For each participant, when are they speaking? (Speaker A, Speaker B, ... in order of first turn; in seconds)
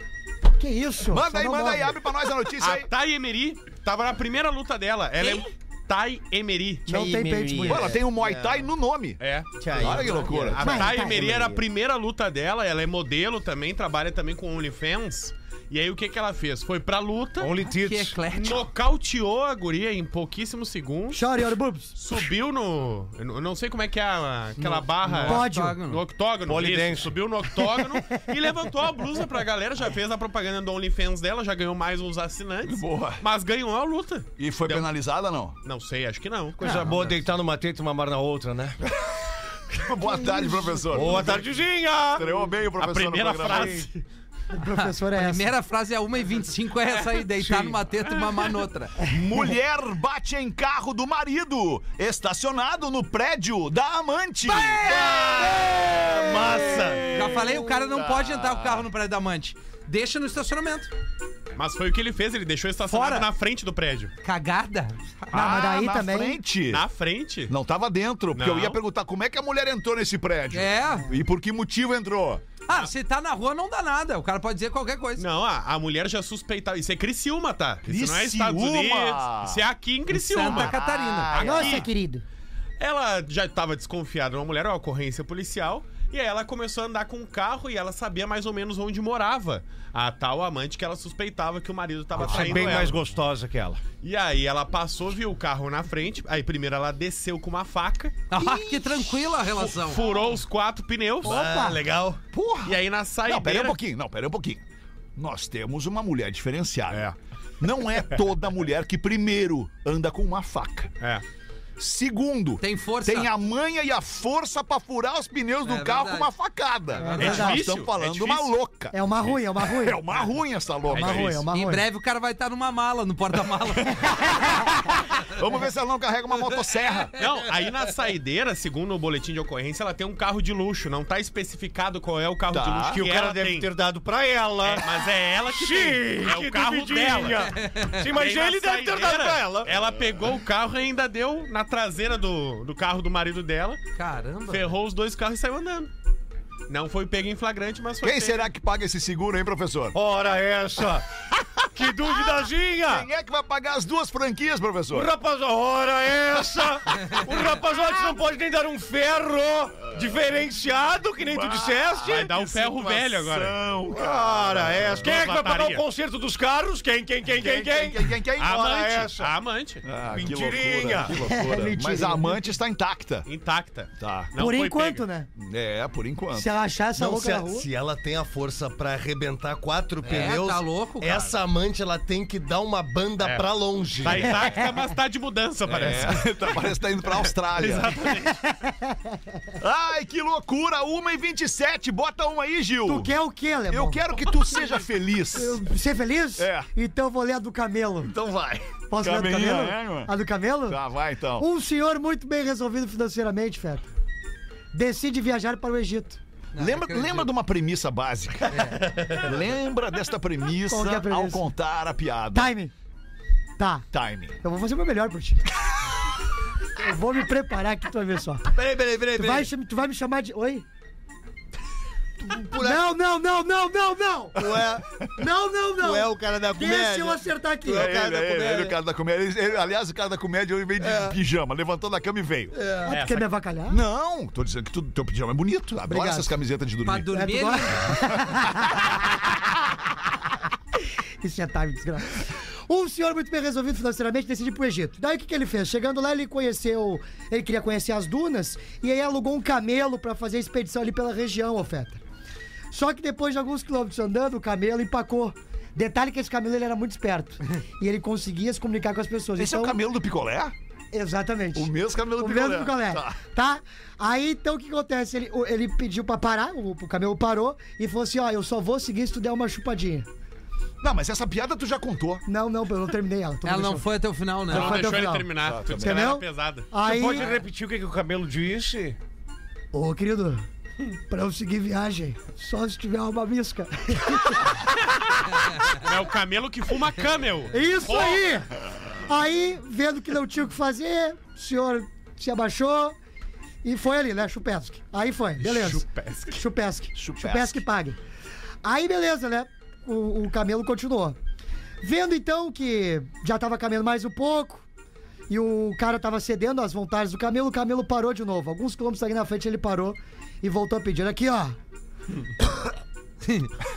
Speaker A: 0.6-2.0, 6.9-8.0, 10.6-11.5, 21.1-21.9, 25.2-25.8, 27.8-28.2, 40.0-41.2, 44.5-45.5, 65.3-66.4, 81.4-82.2, 101.2-101.8, 117.0-117.6, 118.9-120.0, 120.9-121.9, 171.1-172.4, 174.4-175.3, 176.3-177.7, 188.2-189.1, 192.9-194.0, 195.3-198.1, 198.9-200.8, 201.4-203.9, 204.7-206.2, 210.7-211.5, 212.3-212.7, 213.6-213.9, 214.4-215.4, 216.8-218.5, 219.1-220.7, 222.5-224.5, 225.1-227.9, 232.8-233.8, 235.9-236.3, 237.1-238.9, 241.2-252.0, 252.7-259.8, 260.9-270.1, 272.2-273.9, 274.5-277.3, 279.7-280.4, 280.9-284.6, 287.5-288.5, 289.0-293.0, 293.6-298.0, 298.6-301.2, 301.8-304.6, 305.3-311.6
Speaker B: 1.1-2.9, 7.6-9.2, 9.7-10.9, 32.6-33.2, 34.4-35.5, 39.0-41.6, 42.1-43.8, 49.0-58.8, 65.3-66.8, 67.5-72.4, 77.9-79.6, 80.4-81.9, 98.3-99.5, 102.3-104.6, 105.2-110.9, 111.8-121.4, 125.2-127.1, 132.5-133.0, 148.0-150.0, 151.8-155.1, 161.2-165.2, 167.3-168.9, 169.8-173.3, 174.0-174.3, 175.4-176.5, 185.7-187.9, 189.6-193.1, 193.7-195.6, 196.4-196.7, 198.0-200.1, 200.7-201.5, 206.6-212.5, 213.9-214.4, 227.7-232.6, 233.7-237.3, 238.1-239.1, 259.4-260.5, 261.5-263.2, 270.8-272.2, 275.4-276.1, 296.9-297.6
Speaker C: 2.6-7.0, 9.2-17.5, 18.3-21.2, 21.9-34.9, 35.6-36.6, 42.8-44.0, 61.5-64.1, 66.7-67.5, 68.3-68.8, 75.2-80.7, 81.3-81.9, 82.8-93.0, 94.0-98.2, 99.6-101.4, 102.6-103.8, 117.2-118.5, 120.9-121.4, 127.2-133.7, 134.6-137.5, 138.1-143.8, 144.5-145.9, 146.7-148.5, 162.1-163.6, 165.0-165.8, 168.4-169.8, 173.2-175.0, 183.2-183.4, 184.0-188.4, 232.9-233.2, 274.5-276.7, 285.7-288.4, 295.4-296.4
Speaker D: 7.2-7.7, 56.1-57.1, 101.2-102.2, 177.0-184.4, 218.6-219.5, 222.2-222.8, 224.4-224.8, 225.8-228.7, 230.9-231.1, 232.5-232.9
Speaker E: 9.8-10.6, 17.4-18.2, 26.5-27.2, 36.6-38.8, 40.9-42.4, 43.5-43.9, 47.4-47.8, 92.1-93.8, 132.9-134.9, 135.5-139.7, 149.9-151.0, 151.7-153.1, 154.9-162.3, 163.9-168.1, 168.6-169.3, 170.1-171.2, 276.8-279.0
Speaker F: 17.6-18.7, 24.6-26.0, 36.6-36.9, 44.7-49.0, 54.5-55.3, 57.1-60.9, 62.9-63.3, 64.2-65.4, 70.5-71.1, 72.7-75.2, 80.1-81.3, 92.2-92.7, 98.3-100.0, 112.6-113.3, 115.6-116.3, 117.0-117.5, 121.5-124.5, 137.5-138.0, 143.9-144.7, 180.0-181.3, 206.6-207.3, 208.5-208.8, 236.9-237.9, 273.4-274.9